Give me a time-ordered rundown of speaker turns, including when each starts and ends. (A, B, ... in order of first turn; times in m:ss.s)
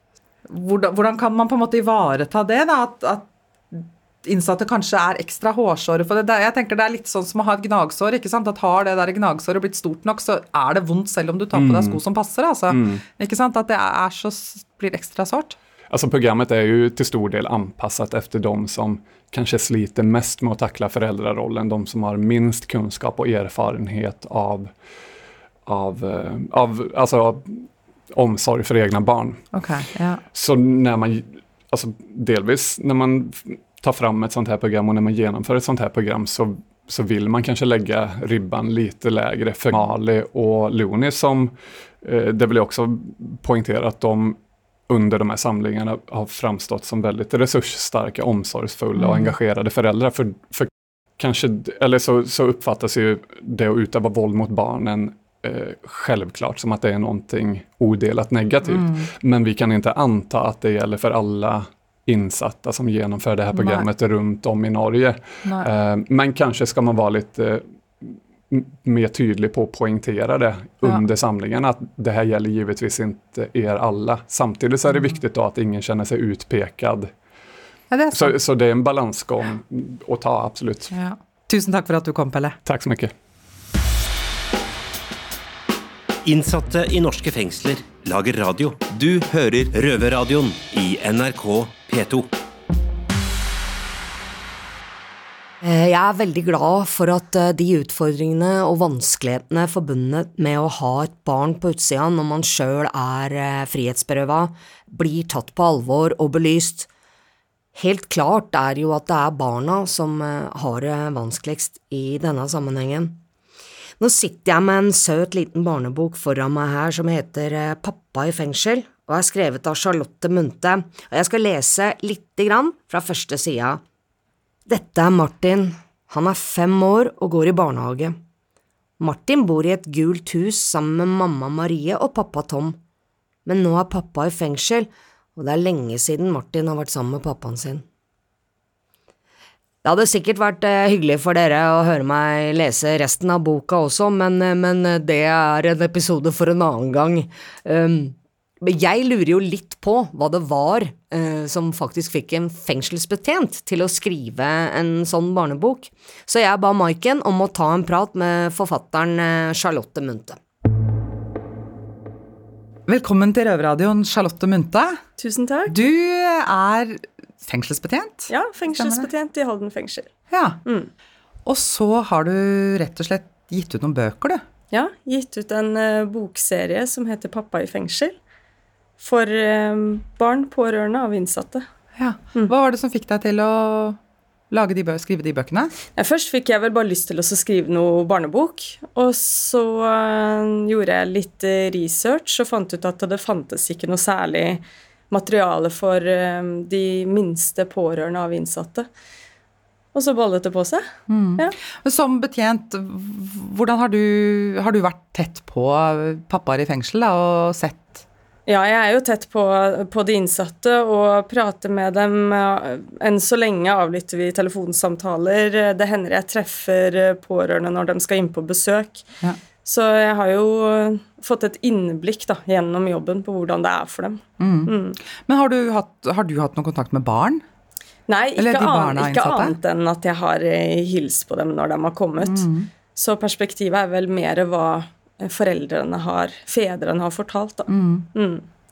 0:00.5-0:15.6 A
0:11.5-0:12.0 B
0:12.7-0:13.0 B
0:15.9-0:24.7 B
0:25.6-0:29.4 B
0:29.5-0:30.2 A
0:30.3-0:44.4 B
0:44.9-1:17.1 B
0:49.0-0:49.3 A
0:58.7-0:59.1 A
1:03.5-1:03.9 A
1:14.9-1:15.2 A
1:17.9-1:18.4 A
1:18.1-1:20.9 B
1:20.9-1:22.6 A
1:22.6-1:23.1 B
1:26.2-1:32.3 C
1:35.6-1:46.9 D
1:47.8-1:53.2 D
1:54.0-2:03.8 D
2:04.7-2:08.2 D
2:09.0-2:12.8 D
2:13.4-2:17.8 D
2:19.8-2:40.4 D
2:42.9-2:45.0 A
2:45.2-2:45.8 E
2:45.7-2:49.1 A
2:48.3-2:50.1 E
2:50.3-2:50.6 A
2:50.6-2:50.9 E
2:51.4-2:54.4 A
2:54.7-2:58.2 E
2:59.0-3:01.7 E
3:02.0-3:04.0 A
3:04.5-3:05.7 A
3:06.0-3:18.9 E
3:19.9-3:20.8 E
3:21.1-3:28.0 A
3:28.5-3:39.0 E
3:39.6-3:45.0 E
3:44.4-3:47.4 A
3:48.1-3:58.4 E
3:48.4-3:49.6 A
3:52.2-3:52.7 A
3:57.7-3:58.1 A